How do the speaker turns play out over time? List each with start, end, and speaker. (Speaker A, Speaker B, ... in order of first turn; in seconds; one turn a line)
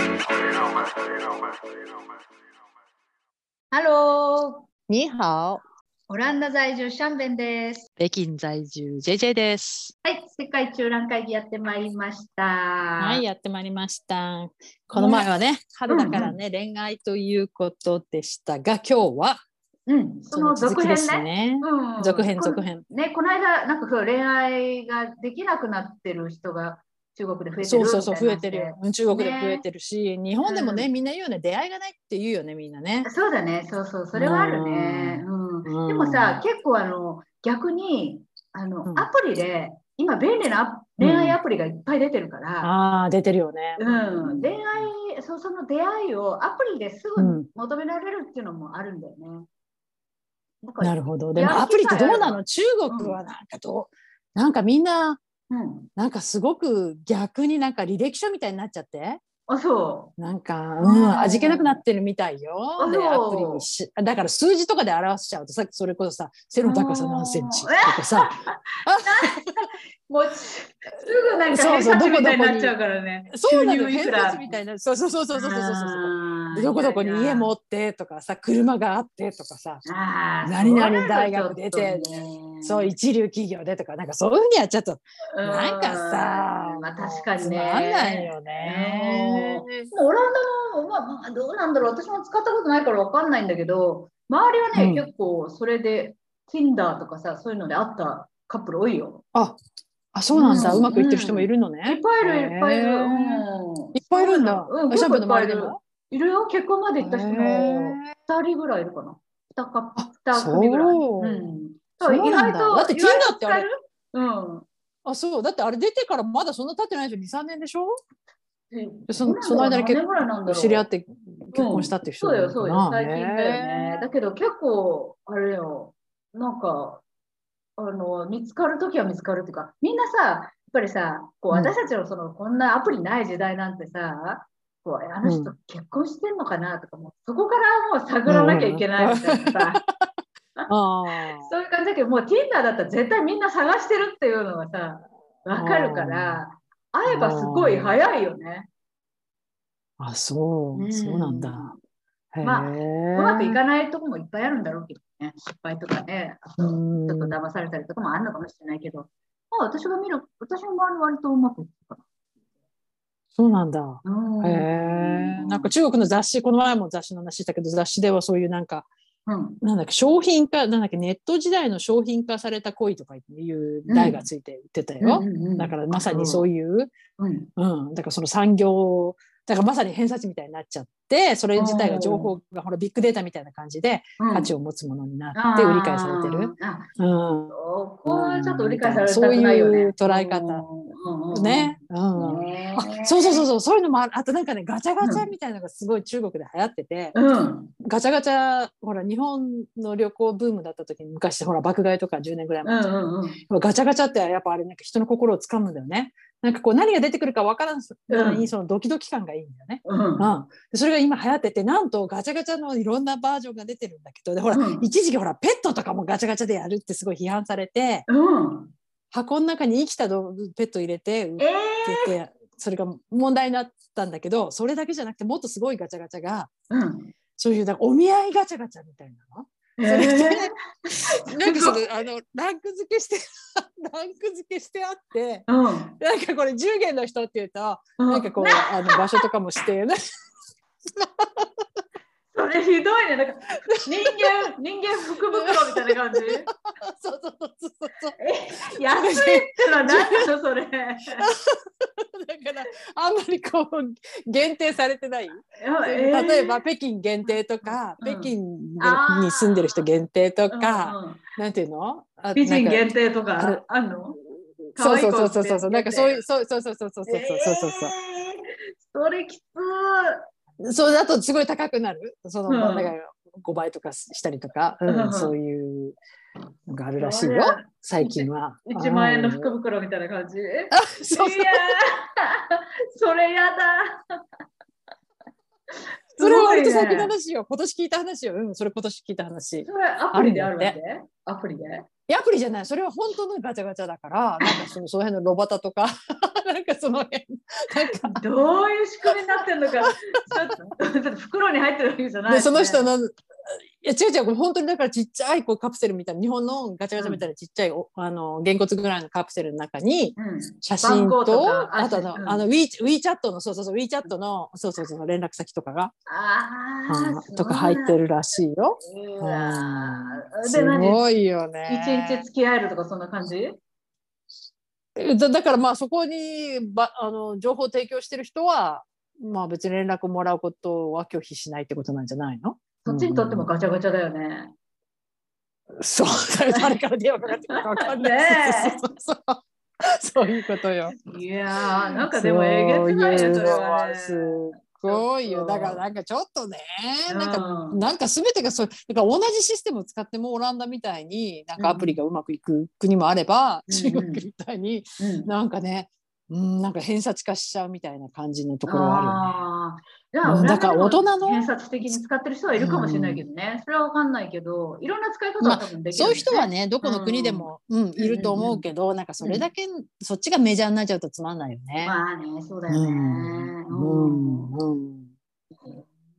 Speaker A: 3.7-4.7
Speaker B: 4.9-5.6
Speaker A: 6.1-7.9
Speaker B: 8.0-9.9
Speaker A: 10.0-13.2
Speaker B: 13.0-19.4
Speaker A: 14.9-15.3
Speaker A: 15.9-16.4
Speaker A: 19.9-29.6
Speaker B: 20.3-22.8
Speaker B: 27.6-33.1
Speaker A: 30.4-30.9
Speaker A: 33.0-42.7
Speaker B: 34.1-36.4
Speaker B: 41.0-41.4
Speaker B: 42.6-44.9
Speaker A: 43.8-49.5
Speaker B: 47.2-47.5
Speaker A: 50.6-53.2
Speaker B: 50.8-55.2
Speaker A: 55.5-55.9
Speaker B: 56.0-59.2
Speaker A: 59.5-60.1
Speaker B: 60.2-68.3
Speaker A: 60.8-61.8
Speaker A: 62.8-63.7
Speaker A: 66.6-74.5
Speaker B: 68.9-69.5
Speaker B: 71.5-72.8
Speaker B: 73.3-79.8
Speaker A: 75.3-77.5
Speaker A: 79.8-82.9
Speaker B: 80.4-89.9
Speaker A: 85.3-99.2
Speaker B: 94.7-95.1
Speaker B: 99.3-99.6
Speaker B: 100.1-103.4
Speaker A: 100.3-114.7
Speaker B: 104.0-105.8
Speaker B: 107.0-108.1
Speaker B: 110.0-113.7
Speaker B: 115.0-118.0
Speaker A: 118.7-120.9
Speaker B: 119.1-124.0
Speaker A: 121.5-127.0
Speaker A: 127.8-139.8
Speaker B: 135.2-135.5
Speaker B: 138.3-139.8
Speaker B: 140.7-141.5
Speaker A: 141.4-148.7
Speaker B: 145.6-146.4
Speaker B: 147.1-147.9
Speaker B: 150.0-151.7
Speaker A: 150.7-151.8
Speaker B: 152.3-153.6
Speaker A: 152.4-162.1
Speaker B: 156.6-157.4
Speaker B: 163.4-168.9
Speaker A: 164.0-165.7
Speaker A: 169.3-169.6
Speaker B: 169.6-176.9
Speaker A: 173.9-174.2
Speaker A: 175.0-176.5
Speaker A: 177.2-177.5
Speaker B: 177.6-190.7
Speaker A: 181.6-182.3
Speaker A: 184.2-184.5
Speaker A: 185.3-186.9
Speaker A: 187.5-193.5
Speaker B: 191.3-197.2
Speaker A: 195.0-195.3
Speaker A: 197.1-197.7
Speaker B: 197.8-218.1
Speaker A: 202.6-203.4
Speaker A: 208.1-208.5
Speaker A: 209.8-210.3
Speaker A: 214.5-214.9
Speaker A: 218.1-218.7
Speaker B: 219.1-226.5
Speaker A: 221.4-222.2
Speaker A: 226.7-227.1
Speaker B: 227.4-230.5
Speaker A: 229.8-231.8
Speaker B: 231.3-240.0
Speaker A: 235.5-235.9
Speaker A: 238.0-239.0
Speaker B: 241.0-241.5
Speaker A: 242.3-246.5
Speaker B: 243.8-244.4
Speaker B: 245.3-246.3
Speaker B: 246.9-248.2
Speaker A: 248.2-251.3
Speaker B: 248.7-250.3
Speaker B: 251.2-262.9
Speaker A: 255.6-256.6
Speaker A: 257.3-259.9
Speaker A: 260.5-261.2
Speaker A: 262.4-264.2
Speaker B: 263.4-263.6
Speaker A: 264.8-266.2
Speaker B: 264.8-267.9
Speaker A: 267.1-270.2
Speaker B: 270.6-276.0
Speaker A: 272.5-272.9
Speaker A: 274.9-275.3
Speaker B: 276.7-279.5
Speaker A: 277.0-284.2
Speaker B: 280.7-281.7
Speaker A: 286.1-287.1
Speaker B: 286.2-290.8
Speaker A: 289.6-291.9
Speaker B: 292.1-298.2
Speaker A: 298.0-302.9
Speaker B: 299.8-300.4
Speaker B: 302.3-315.9
Speaker A: 307.0-307.2
Speaker A: 310.2-312.4
Speaker A: 316.1-318.0
Speaker B: 316.9-322.2
Speaker A: 318.8-321.0
Speaker A: 321.7-323.6
Speaker B: 325.0-333.5
Speaker A: 332.9-334.5
Speaker B: 335.8-339.4
Speaker A: 336.5-336.8
Speaker A: 337.5-338.8
Speaker B: 339.9-341.0
Speaker A: 340.9-345.8
Speaker B: 341.8-359.4
Speaker A: 347.1-347.8
Speaker A: 351.6-352.0
Speaker A: 353.7-354.2
Speaker A: 355.0-355.3
Speaker A: 358.7-368.6
Speaker B: 360.2-362.0
Speaker B: 362.6-363.2
Speaker B: 365.4-372.0
Speaker A: 369.2-369.5
Speaker A: 371.8-374.5
Speaker B: 372.7-375.1
Speaker A: 375.5-375.9